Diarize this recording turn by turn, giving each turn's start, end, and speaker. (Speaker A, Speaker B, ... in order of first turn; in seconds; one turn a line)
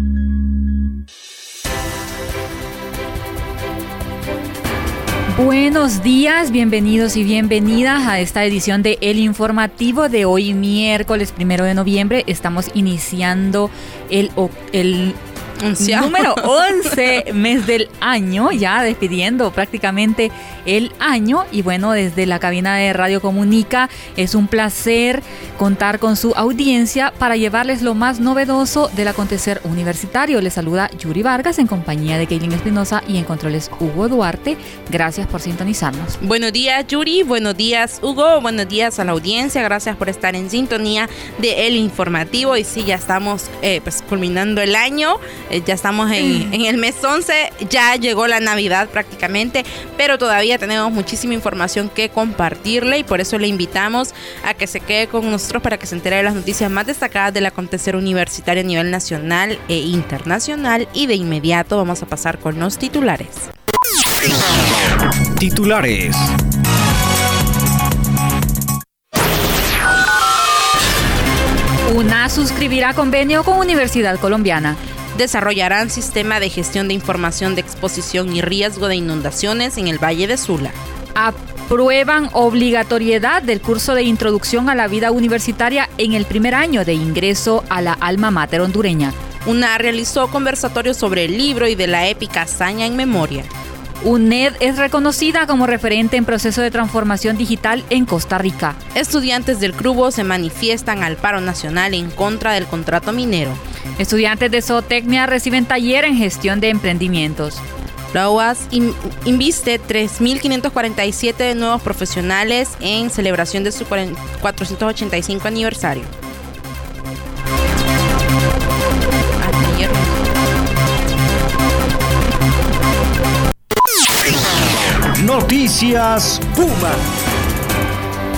Speaker A: 5.3-15.2
Speaker B: 15.6-16.4
Speaker A: 15.8-36.2
Speaker B: 36.2-63.5
Speaker C: 65.4-66.3
Speaker A: 71.8-74.8
Speaker B: 75.1-80.7
Speaker A: 81.2-89.2
Speaker B: 89.4-93.5
Speaker A: 94.0-98.8
Speaker B: 98.9-103.6
Speaker A: 104.0-107.6
Speaker B: 108.1-116.1
Speaker B: 119.4-120.3
Speaker C: 125.2-127.0